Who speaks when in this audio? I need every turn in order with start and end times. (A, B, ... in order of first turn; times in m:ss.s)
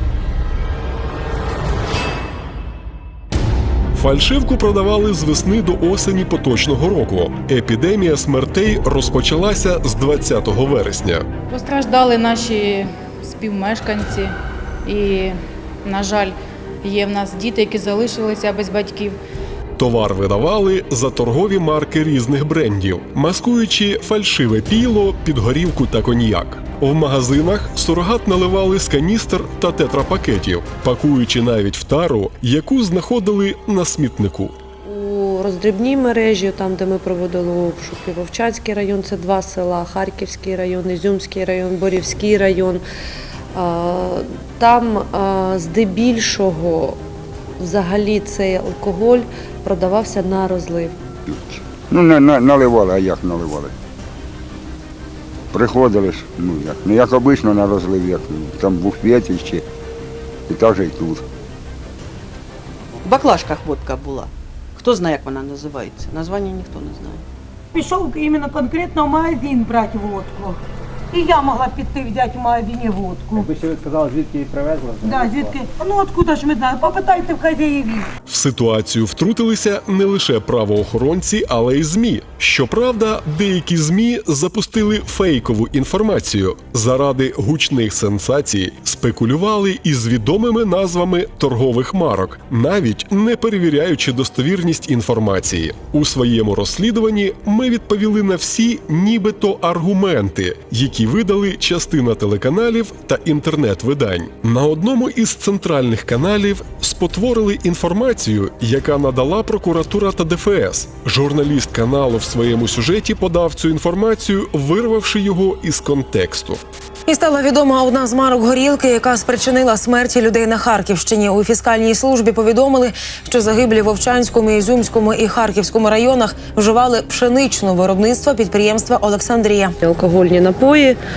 0:03.9-0:11.2 A
0:11.5-0:19.2 B
0:19.8-0:34.5 A
0:34.8-0:42.8 C
0:43.5-0:47.0 C
0:47.6-0:50.9 C
0:51.3-0:53.7 D
0:55.5-0:59.6 D
1:00.5-1:01.2 D
1:03.0-1:07.2 E
1:07.7-1:10.6 F
1:11.1-1:13.5 F
1:13.4-1:15.6 G
1:15.0-1:18.1 F
1:18.3-1:56.6 A
1:57.0-2:09.7 H
2:09.8-2:11.0 C